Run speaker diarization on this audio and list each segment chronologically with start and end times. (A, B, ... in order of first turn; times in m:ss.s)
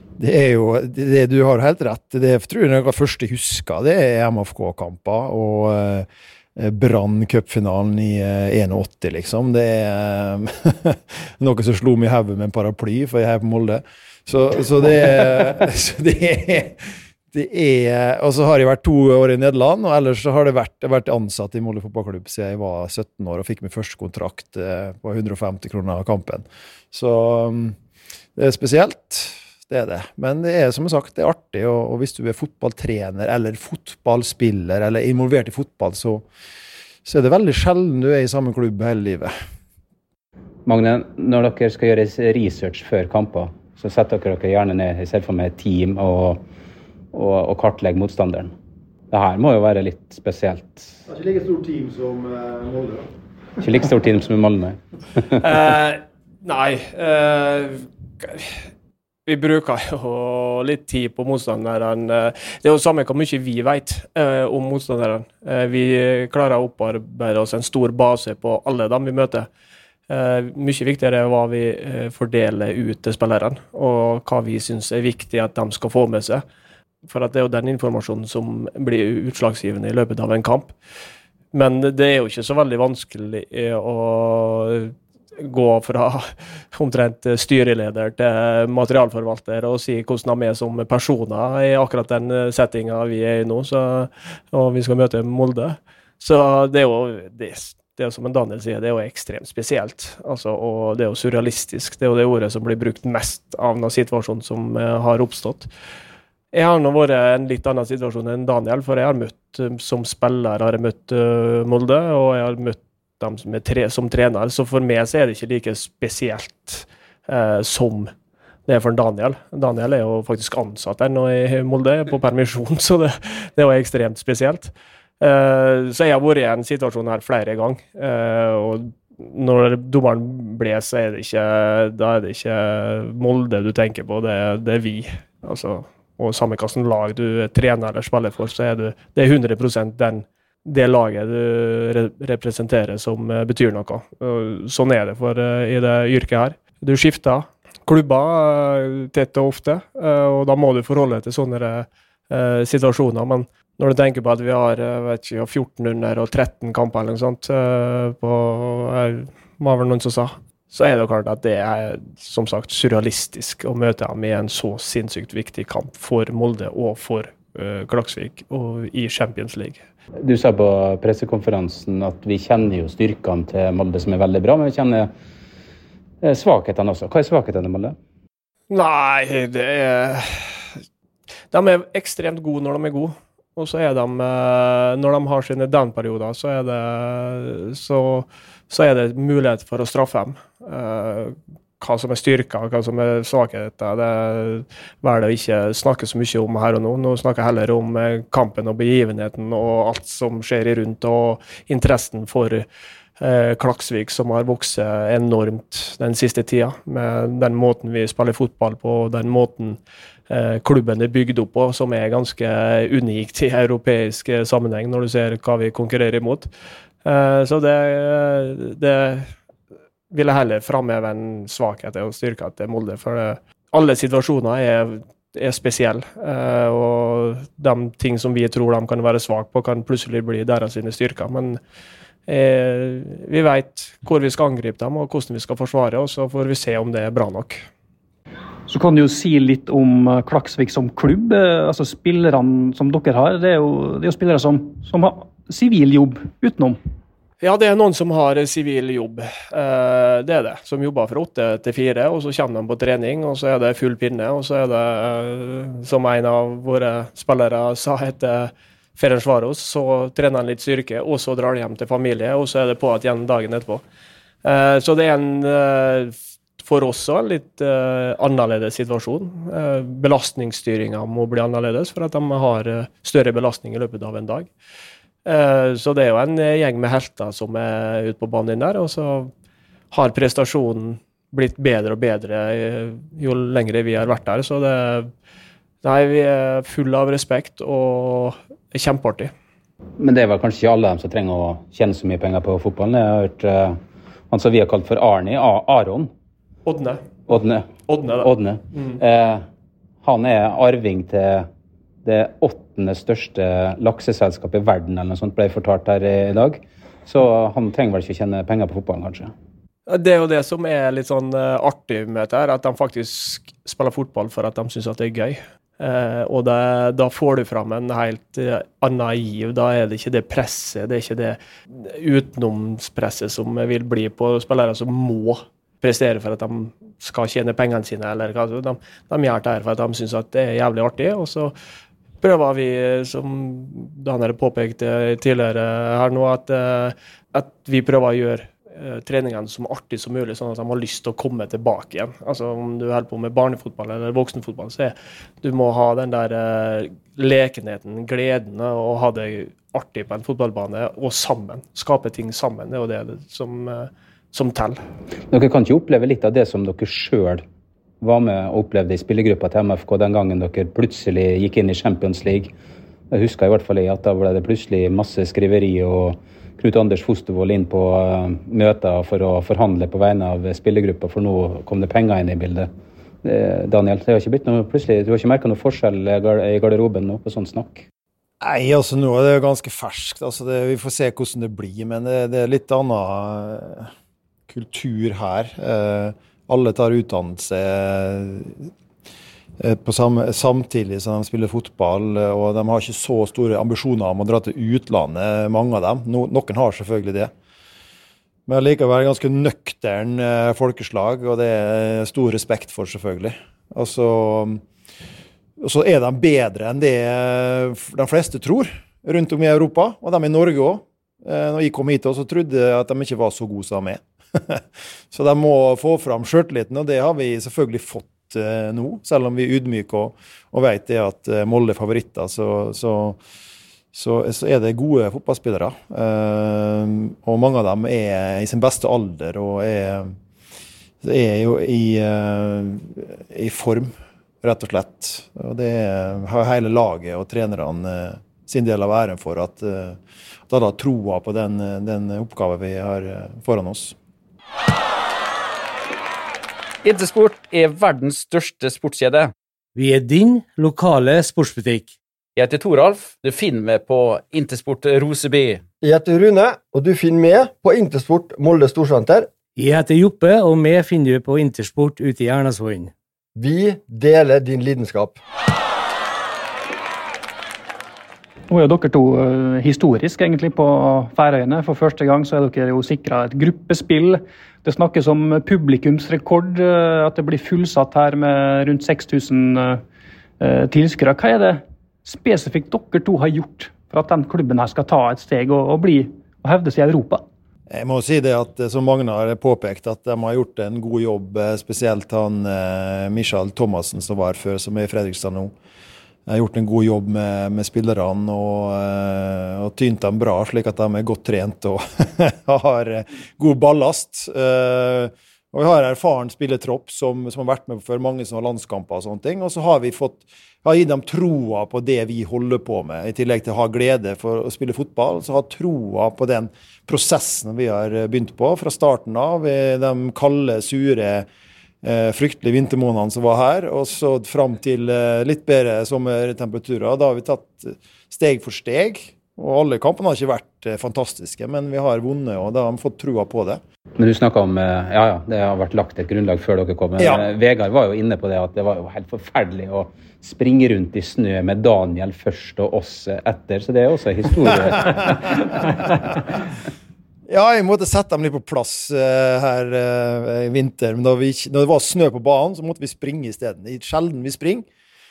0:00.2-0:27.8 A
0:28.4-0:36.2 A
0:37.0-0:39.3 A
0:40.7-0:46.4 B
0:47.1-0:48.5 B
0:49.1-0:51.0 B
0:51.1-0:53.0 A
0:53.6-0:55.4 B
0:55.4-0:58.6 C
0:59.3-1:09.5 C
1:10.1-1:16.4 C
1:17.1-1:20.7 C
1:21.5-1:45.7 C
1:46.5-1:58.1 C
1:58.7-2:49.8 C
2:50.2-2:55.1 B
2:56.2-2:58.0 B
2:58.7-3:00.5 C
3:01.5-3:22.7 C
3:23.2-3:36.5 C
3:37.0-3:39.3 C
3:40.1-3:51.6 C
3:52.3-3:57.6 C
3:58.7-4:06.8 D
4:07.4-4:23.8 C
4:24.4-4:34.5 C
4:35.3-4:39.3 C
4:39.9-4:45.1 C
4:45.8-4:49.3 C
4:50.0-4:53.8 B
4:54.3-4:56.1 B
4:56.7-4:57.0 C
4:57.3-4:57.7 B
4:57.9-4:59.0 C
4:58.2-4:59.4 B
5:00.0-5:01.5 B
5:02.0-5:09.3 B
5:09.9-5:31.5 C
5:32.2-5:54.8 C
5:55.3-5:57.4 B
5:58.0-6:02.5 B
6:03.1-6:12.7 B
6:13.2-6:17.8 B
6:18.4-6:23.9 A
6:24.5-6:28.7 A
6:29.6-6:37.3 A
6:38.5-6:44.6 A
6:45.6-7:03.2 A
7:03.9-7:10.2 A
7:11.0-7:13.9 A
7:14.4-7:24.0 A
7:26.8-7:29.3 E
7:29.8-7:31.9 F
7:32.4-7:35.6 E
7:35.8-7:39.3 G
7:39.6-7:42.9 F
7:43.4-7:45.2 G
7:48.5-7:59.8 D
8:00.4-8:07.2 D
8:07.7-8:15.5 A
8:16.3-8:41.3 A
8:41.8-8:53.6 A
8:54.0-9:05.9 B
8:57.0-8:57.2 A
9:07.3-9:14.7 A